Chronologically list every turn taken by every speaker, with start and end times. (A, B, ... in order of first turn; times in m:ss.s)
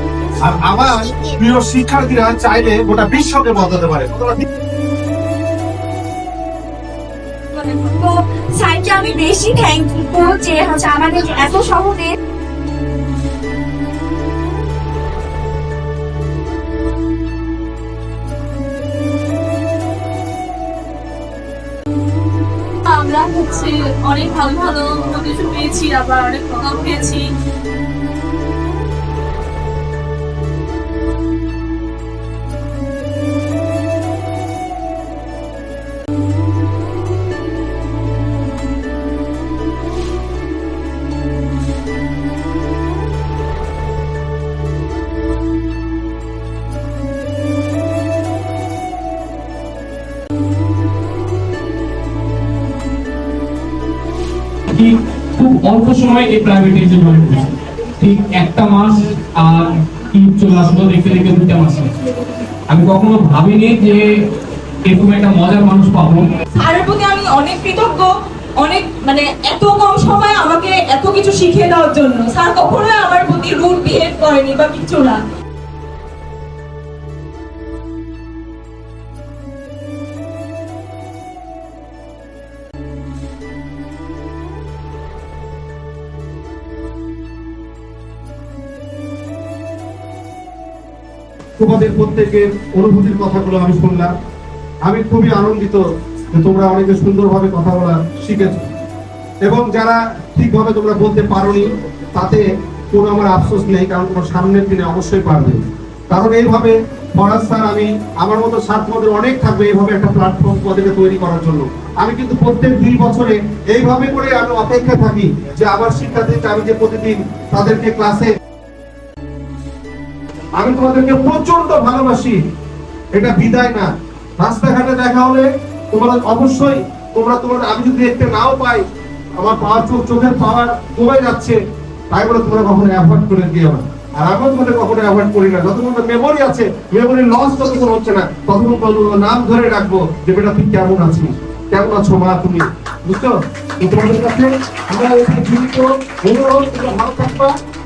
0:00.4-0:04.4 A
0:07.7-0:12.1 B
0:22.9-0:27.3 C
0:54.7-1:01.9 D
1:02.7-1:04.0 D
1:04.9-1:06.3 D
1:06.5-1:15.2 E
1:31.6-1:34.1 A
1:34.8-1:38.7 A
1:39.4-1:58.3 A
2:00.6-2:02.4 A
2:03.1-2:08.8 A
2:09.4-2:11.6 A
2:12.1-2:27.6 A